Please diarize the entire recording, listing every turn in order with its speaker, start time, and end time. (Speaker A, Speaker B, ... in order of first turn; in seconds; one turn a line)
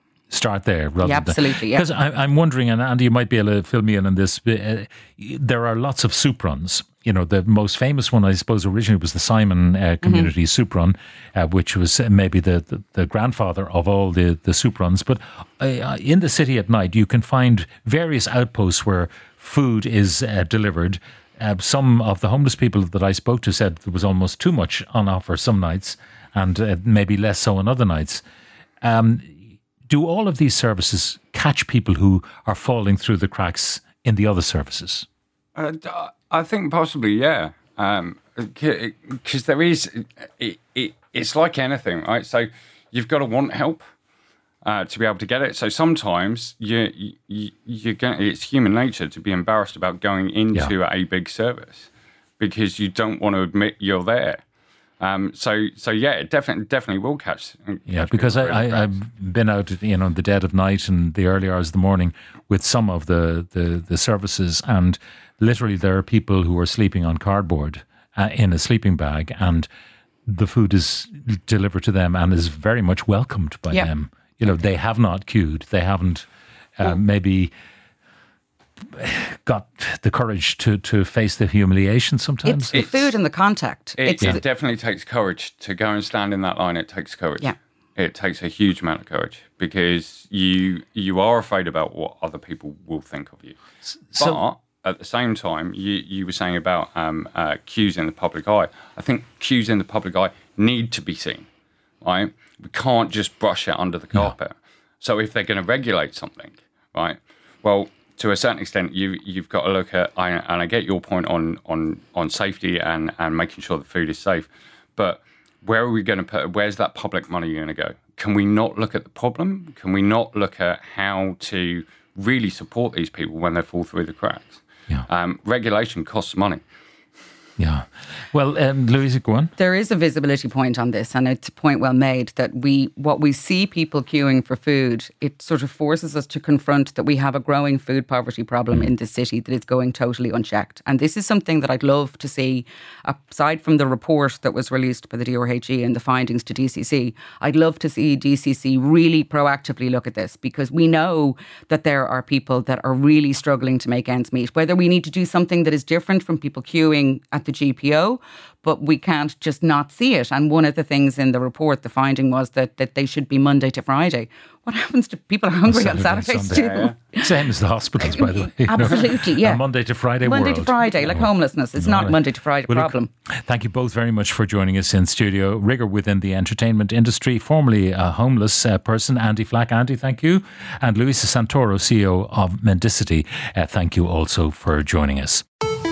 Speaker A: 0.3-28.2
Speaker B: 1.0-1.9
Speaker B: 10.0-10.3
Speaker A: 28.8-29.3
Speaker A: 29.9-35.1
Speaker C: 35.5-43.8
Speaker C: 44.6-54.4
Speaker C: 55.0-58.9
Speaker A: 57.9-69.7
Speaker A: 70.3-77.5
Speaker A: 78.9-82.9
Speaker B: 82.4-84.4
Speaker C: 82.7-83.1
Speaker C: 84.0-93.6
Speaker A: 94.1-94.4
Speaker C: 94.1-101.5
Speaker C: 102.0-126.6
Speaker A: 127.6-129.5
Speaker B: 129.6-167.3
Speaker A: 165.7-185.4
Speaker C: 166.5-166.9
Speaker B: 168.0-169.6
Speaker B: 170.2-173.1